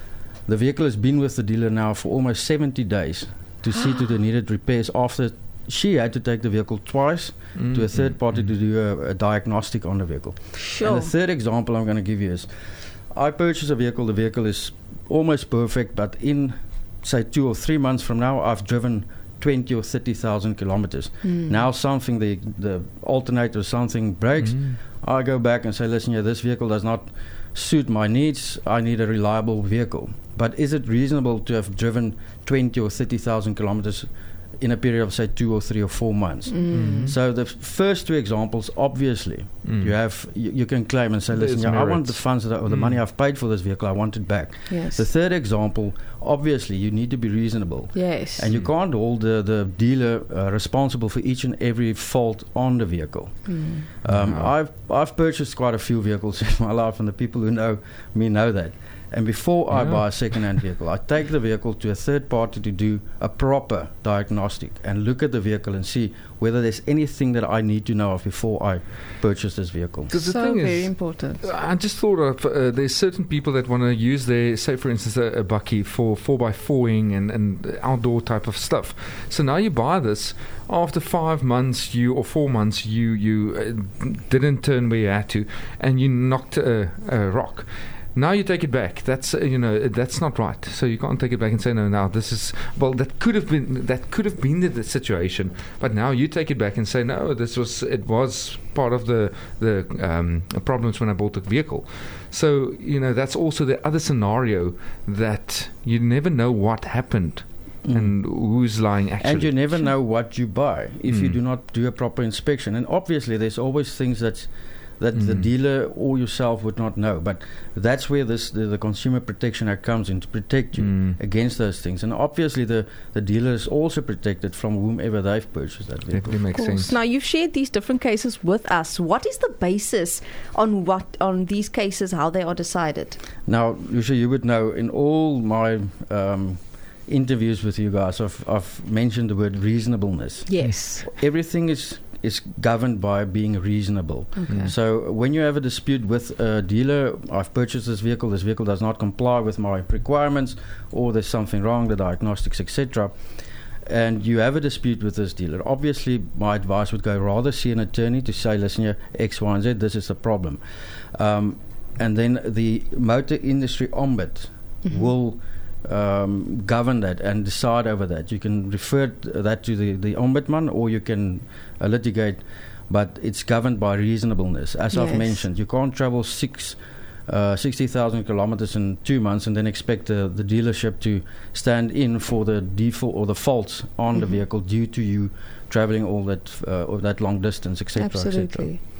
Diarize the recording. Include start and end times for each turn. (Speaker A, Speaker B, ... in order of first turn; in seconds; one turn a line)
Speaker A: 0.5-12.5
Speaker B: 7.5-8.5
Speaker C: 10.6-11.1
Speaker A: 13.1-34.1
Speaker C: 21.2-21.6
Speaker B: 24.4-24.8
Speaker A: 34.6-70.1
Speaker C: 36.5-37.1
Speaker B: 36.7-37.1
Speaker B: 39.6-39.9
Speaker B: 41.3-43.0
Speaker C: 44.7-45.0
Speaker C: 47.9-48.5
Speaker C: 53.5-53.9
Speaker B: 54.0-54.5
Speaker B: 59.7-60.4
Speaker B: 70.1-109.9
Speaker C: 70.2-71.4
Speaker A: 107.8-108.2
Speaker A: 109.2-126.8
Speaker B: 111.1-111.4
Speaker B: 115.1-115.5
Speaker B: 120.8-121.2
Speaker B: 126.1-126.9
Speaker C: 126.5-133.2
Speaker A: 133.4-153.1
Speaker C: 140.5-141.1
Speaker C: 144.3-144.7
Speaker B: 144.5-144.7
Speaker A: 153.8-160.6
Speaker A: 161.1-188.7
Speaker C: 164.8-165.1
Speaker C: 174.9-175.4
Speaker C: 187.9-188.8